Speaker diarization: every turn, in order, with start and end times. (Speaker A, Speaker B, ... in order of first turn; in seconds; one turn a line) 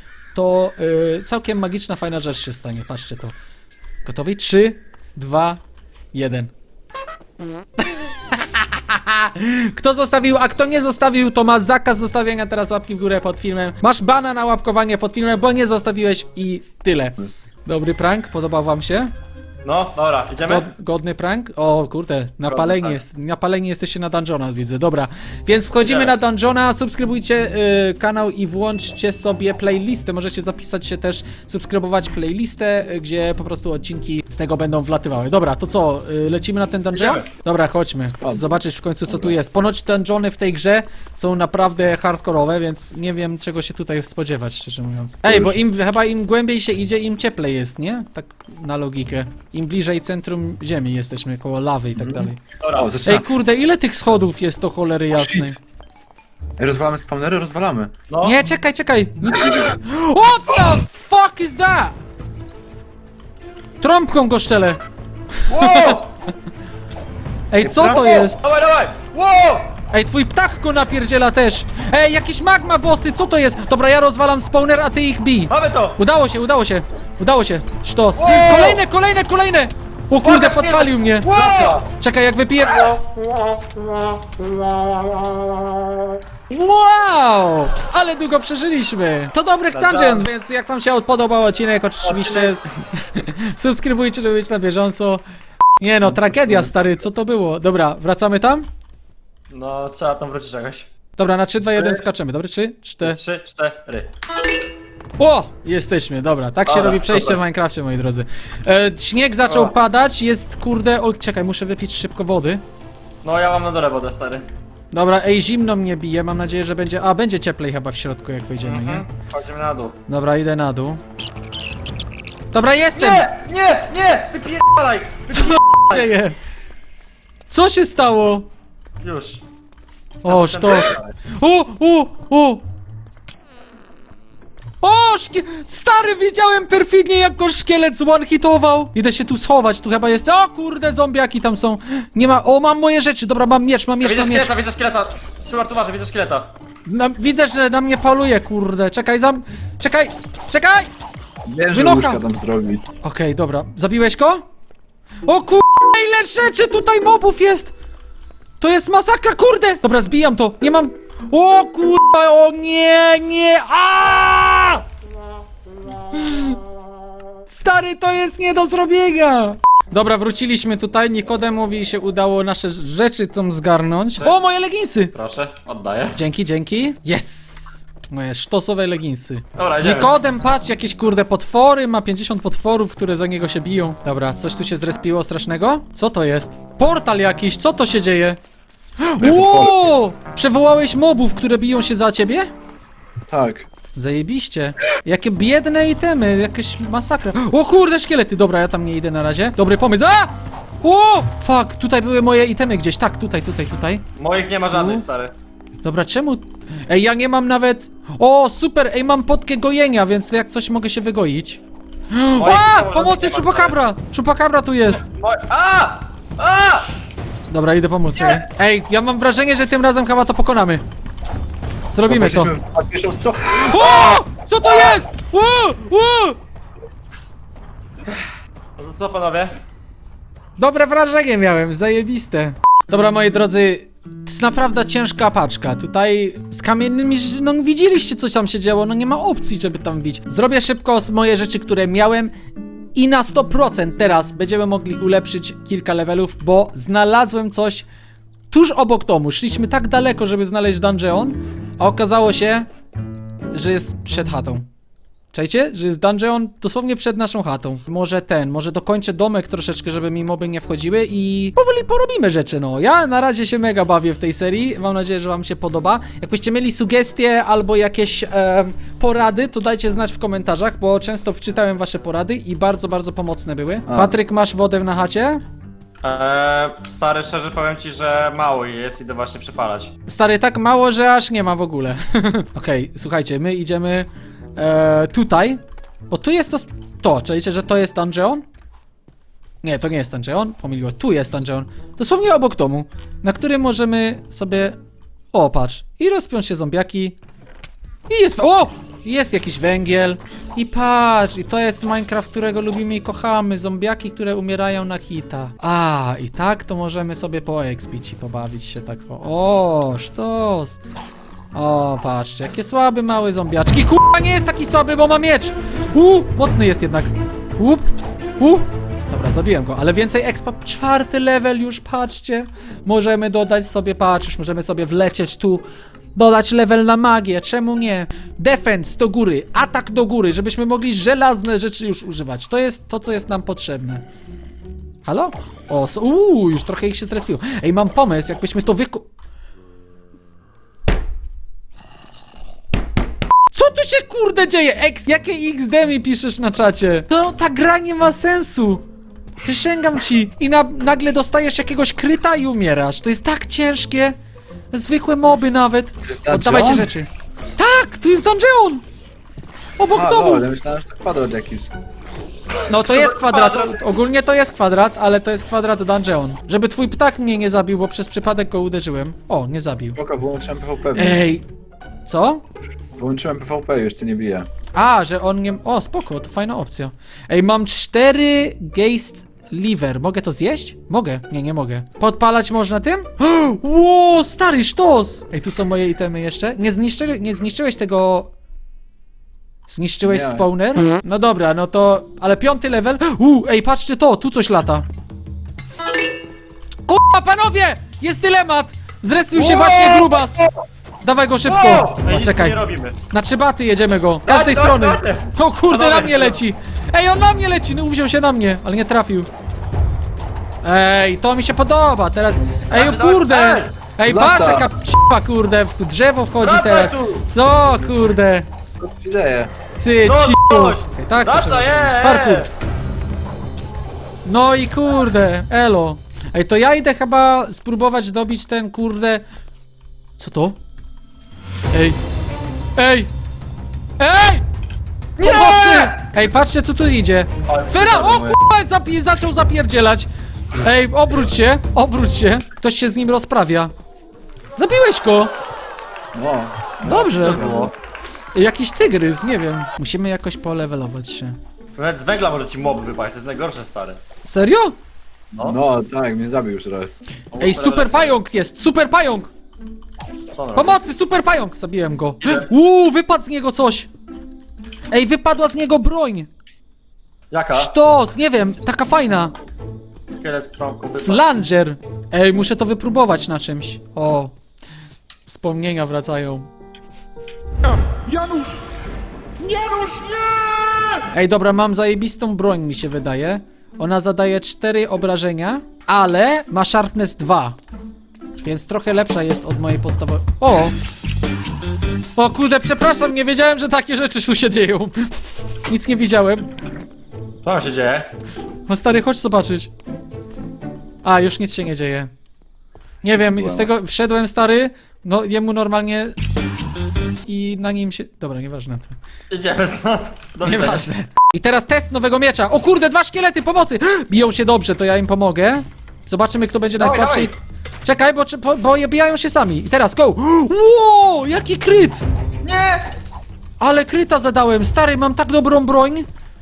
Speaker A: 0.3-3.3
Speaker A: 4.0-5.6
Speaker A: 6.1-6.5
Speaker A: 7.8-19.1
Speaker B: 19.6-20.7
Speaker A: 20.4-52.4
Speaker B: 22.5-23.0
Speaker B: 25.8-26.1
Speaker B: 36.9-37.2
Speaker C: 38.2-39.4
Speaker C: 45.2-45.6
Speaker C: 52.0-53.3
Speaker B: 52.6-53.1
Speaker A: 53.0-55.6
Speaker C: 55.1-55.5
Speaker C: 56.6-57.9
Speaker B: 58.1-58.4
Speaker A: 58.2-61.9
Speaker A: 63.8-64.8
Speaker A: 65.4-66.0
Speaker B: 65.5-66.1
Speaker A: 67.5-68.4
Speaker C: 67.6-68.3
Speaker B: 67.9-69.7
Speaker A: 69.9-81.3
Speaker B: 75.5-76.0
Speaker B: 78.2-78.8
Speaker B: 80.2-81.8
Speaker C: 81.3-81.9
Speaker A: 82.0-83.0
Speaker A: 86.5-95.2
Speaker B: 89.7-90.3
Speaker B: 92.0-92.7
Speaker A: 95.8-98.7
Speaker C: 96.0-97.0
Speaker B: 99.5-100.9
Speaker A: 101.2-103.2
Speaker B: 101.8-102.0
Speaker B: 103.0-104.1
Speaker A: 105.2-112.6
Speaker B: 106.7-107.4
Speaker B: 109.5-109.7
Speaker B: 113.2-114.4
Speaker A: 114.9-119.0
Speaker B: 118.6-120.0
Speaker A: 120.1-121.0
Speaker A: 122.5-123.3
Speaker B: 122.9-126.1
Speaker A: 125.3-126.4
Speaker A: 127.5-128.5
Speaker B: 129.0-129.4
Speaker B: 130.2-131.1
Speaker A: 130.2-132.6
Speaker A: 134.8-144.5
Speaker B: 144.0-146.5
Speaker A: 146.8-150.9
Speaker C: 151.4-152.8
Speaker A: 151.7-152.2
Speaker A: 153.0-154.4
Speaker A: 155.2-157.7
Speaker A: 158.6-164.8
Speaker A: 166.1-166.6
Speaker A: 167.5-175.1
Speaker B: 175.1-176.2
Speaker A: 176.1-188.4
Speaker B: 179.6-180.1
Speaker A: 189.0-192.5
Speaker C: 189.2-189.9
Speaker C: 193.2-193.7
Speaker A: 193.9-204.0
Speaker B: 204.2-205.3
Speaker A: 204.7-205.0
Speaker A: 205.8-211.6
Speaker A: 212.1-215.1
Speaker B: 212.3-213.8
Speaker B: 214.9-216.9
Speaker A: 217.5-220.8
Speaker B: 218.2-218.4
Speaker A: 221.9-222.5
Speaker C: 222.0-224.0
Speaker A: 223.6-226.4
Speaker B: 228.8-229.5
Speaker A: 230.6-242.3
Speaker A: 242.9-247.8
Speaker A: 248.5-252.7
Speaker A: 253.5-254.7
Speaker A: 255.3-275.4
Speaker C: 273.9-274.2
Speaker B: 276.0-279.9
Speaker A: 280.1-288.4
Speaker A: 289.6-294.8
Speaker A: 295.3-297.1
Speaker A: 298.1-310.8
Speaker A: 311.5-317.9
Speaker A: 318.4-334.0
Speaker A: 335.0-339.1
Speaker A: 343.5-348.8
Speaker A: 349.4-354.1
Speaker A: 354.7-358.8
Speaker C: 356.0-356.9
Speaker A: 359.8-360.4
Speaker C: 359.9-361.7
Speaker A: 362.7-370.0
Speaker B: 362.8-363.8
Speaker C: 369.9-371.3
Speaker A: 370.9-371.4
Speaker A: 372.1-372.4
Speaker C: 372.9-374.5
Speaker A: 374.7-388.3
Speaker A: 389.7-394.9
Speaker C: 390.1-390.4
Speaker A: 396.9-400.4
Speaker B: 399.4-400.4
Speaker A: 401.0-402.6
Speaker B: 401.4-402.9
Speaker A: 403.1-409.3
Speaker B: 404.3-406.4
Speaker A: 410.6-418.4
Speaker B: 412.7-413.7
Speaker C: 414.1-414.7
Speaker B: 416.4-417.2
Speaker C: 418.7-419.5
Speaker A: 419.8-422.5
Speaker B: 420.0-422.5
Speaker A: 424.2-429.2
Speaker A: 430.2-430.6
Speaker A: 431.7-432.0
Speaker A: 432.8-433.1
Speaker A: 434.0-434.4
Speaker B: 435.2-436.1
Speaker A: 435.2-440.1
Speaker B: 437.5-438.3
Speaker A: 440.6-443.7
Speaker A: 444.6-445.3
Speaker C: 446.1-447.7
Speaker A: 446.8-447.5
Speaker B: 447.1-447.7
Speaker A: 448.3-451.3
Speaker B: 451.8-454.0
Speaker A: 454.2-454.8
Speaker C: 455.4-457.2
Speaker B: 457.3-458.2
Speaker A: 457.4-459.3
Speaker B: 460.3-460.8
Speaker A: 460.5-463.9
Speaker B: 462.2-462.5
Speaker A: 464.9-466.3
Speaker B: 467.3-467.7
Speaker A: 467.5-469.3
Speaker B: 470.2-471.2
Speaker A: 470.9-474.3
Speaker A: 475.3-476.5
Speaker D: 477.9-478.6
Speaker D: 479.4-481.0
Speaker A: 481.1-487.6
Speaker A: 488.4-490.8
Speaker A: 492.1-495.1
Speaker A: 495.7-496.5
Speaker B: 497.4-498.1
Speaker A: 498.7-499.7
Speaker A: 501.0-502.1
Speaker C: 503.0-503.7
Speaker A: 503.0-506.1
Speaker A: 507.2-508.9
Speaker B: 509.3-510.9
Speaker A: 510.4-517.3
Speaker B: 516.8-517.3
Speaker A: 517.8-522.0
Speaker B: 522.4-522.9
Speaker A: 523.6-526.0